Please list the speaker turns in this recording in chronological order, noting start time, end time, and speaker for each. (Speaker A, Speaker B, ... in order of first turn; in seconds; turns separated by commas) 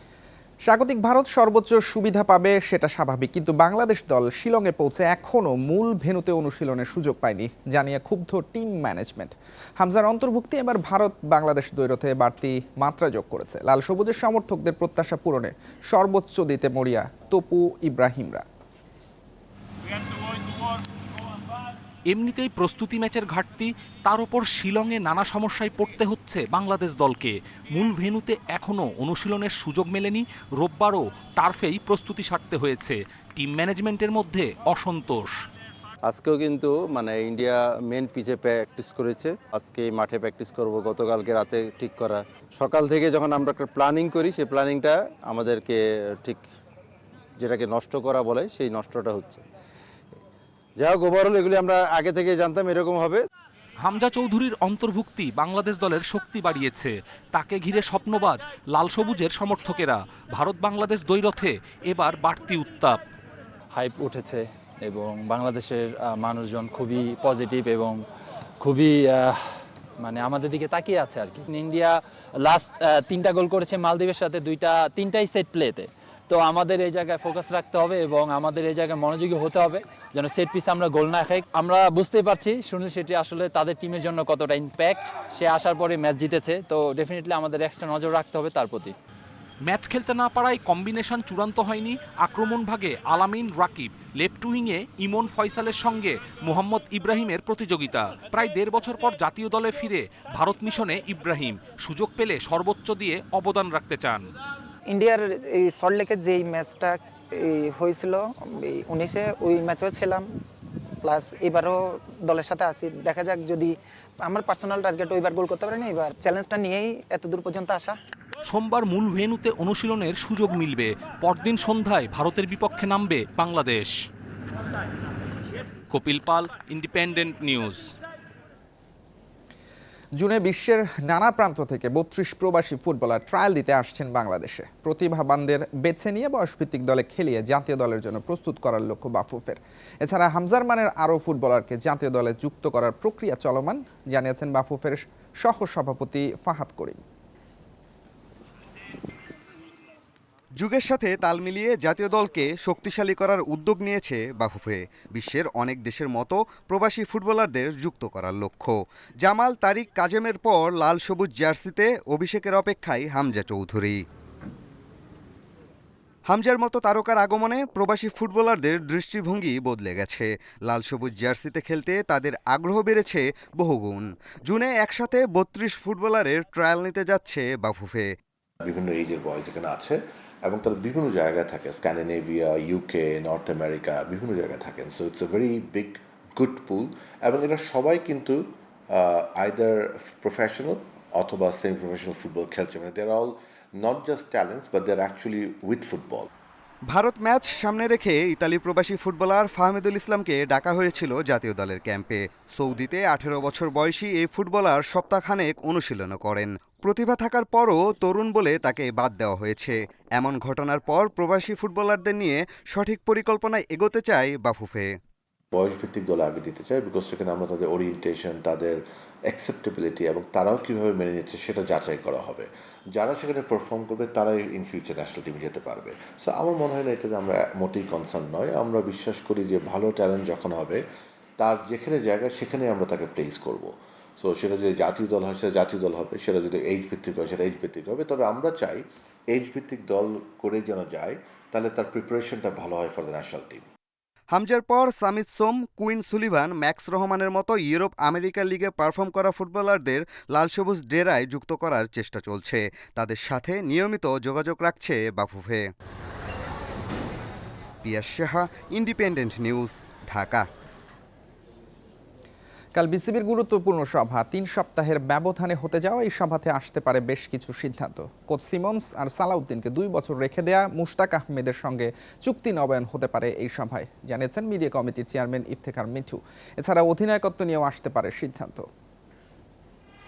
Speaker A: 0.6-18.4, Speaker B: 22.1-35.3, Speaker C: 36.1-46.4, Speaker C: 47.4-49.4, Speaker C: 50.8-53.2, Speaker B: 53.9-63.0, Speaker D: 63.7-68.0, Speaker D: 68.6-69.4, Speaker D: 70.0-88.9, Speaker B: 89.7-104.3, Speaker E: 104.9-110.3, Speaker E: 111.0-113.7, Speaker E: 114.2-118.0, Speaker B: 118.5-123.9, Speaker B: 125.9-127.8, Speaker A: 130.2-147.0, Speaker F: 150.6-164.0, Speaker F: 166.3-178.1, Speaker G: 178.6-196.3, Speaker F: 196.9-215.0, Speaker G: 215.5-218.8, Speaker G: 219.3-230.8, Speaker G: 231.4-243.6, Speaker F: 244.3-255.7, Speaker F: 257.8-260.4, Speaker A: 262.7-278.7